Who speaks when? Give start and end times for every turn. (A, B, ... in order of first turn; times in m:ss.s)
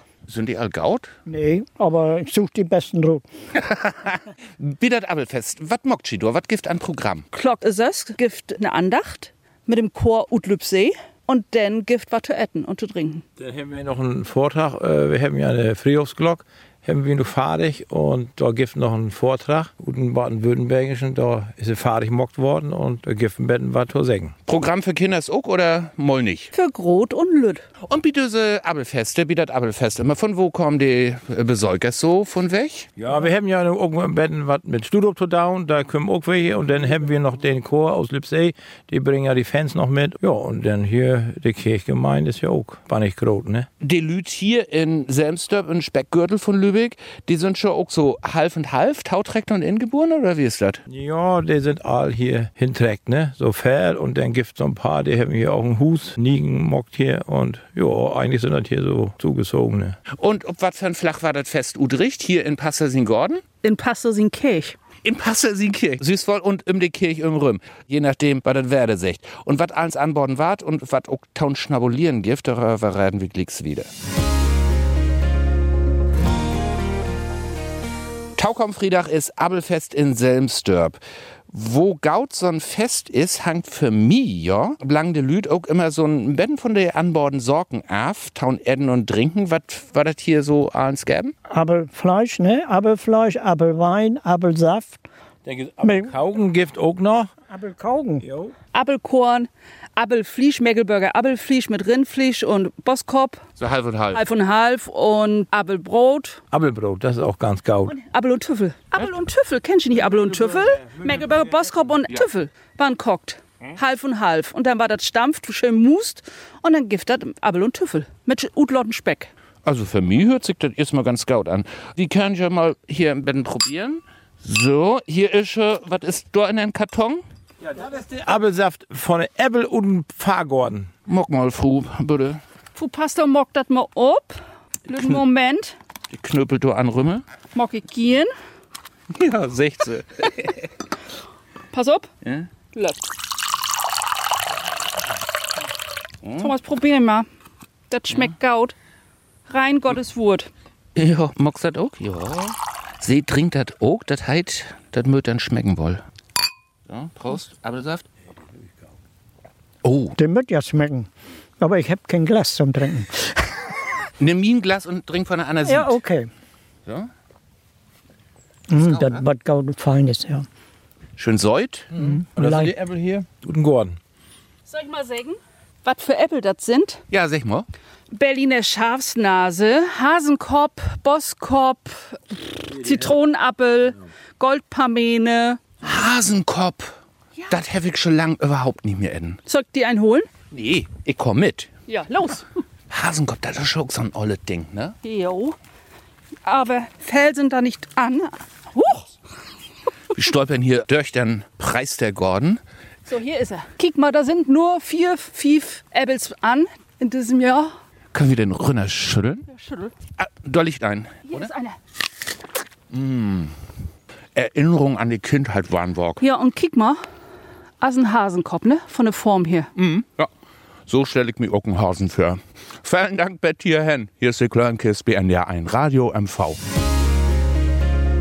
0:00.3-0:01.1 A
0:01.2-0:03.2 B
0:03.6-0:07.3 A
0:07.3-0:13.2 C
0:13.4-0:24.3 D
0:24.5-0:26.5 A
0:26.5-0:27.6 C
0:27.8-0:32.9 A
0:33.0-0:43.7 D
0:43.8-0:50.8 A
0:50.9-1:00.0 D
1:00.1-1:03.4 A
1:03.6-1:04.8 C
1:05.0-1:13.9 A
1:18.4-1:21.0 A
1:21.5-1:31.3 A
1:31.5-1:35.0 B
1:35.4-1:37.3 D
1:35.8-1:36.1 B
1:37.5-1:38.2 B
1:38.2-1:38.5 D
1:38.7-1:43.4 C
1:43.6-1:44.2 A
1:44.1-1:46.4 C
1:46.5-1:48.0 D
1:47.9-1:59.3 C
1:50.0-1:51.5 D
1:59.6-2:07.2 A
2:07.6-2:10.9 D
2:11.1-2:12.4 A
2:12.7-2:15.8 C
2:16.1-2:17.2 A
2:17.5-2:18.3 C
2:19.1-2:20.7 A
2:21.7-2:22.1 C
2:22.7-2:23.0 C
2:26.2-2:26.5 A
2:26.4-2:27.3 C
2:27.9-2:28.7 C
2:29.5-2:30.5 C
2:30.9-2:36.0 A
2:36.9-2:38.0 A
2:39.8-2:40.2 A
2:40.2-2:41.1 B
2:41.6-2:43.6 B
2:44.2-2:46.0 A
2:45.6-2:46.3 B
2:48.7-2:50.4 B
2:48.8-2:49.2 A
2:51.2-2:51.9 A
2:51.9-2:54.0 D
2:51.9-2:52.7 B
2:54.7-2:57.0 C
2:57.1-2:57.6 A
2:58.1-3:05.6 C
3:05.8-3:07.0 A
3:07.5-3:09.4 A
3:09.5-3:10.3 C
3:10.5-3:11.7 A
3:11.9-3:12.4 C
3:12.9-3:15.0 A
3:15.0-3:15.6 C
3:16.4-3:19.0 C
3:20.1-3:22.6 A
3:23.1-3:27.7 C
3:28.1-3:29.5 A
3:29.5-3:29.9 C
3:30.2-3:31.5 A
3:31.3-3:31.8 C
3:32.9-3:33.5 A
3:34.3-3:36.2 A
3:36.2-3:37.0 C
3:37.8-3:39.7 C
3:39.8-3:40.3 A
3:40.9-3:46.6 A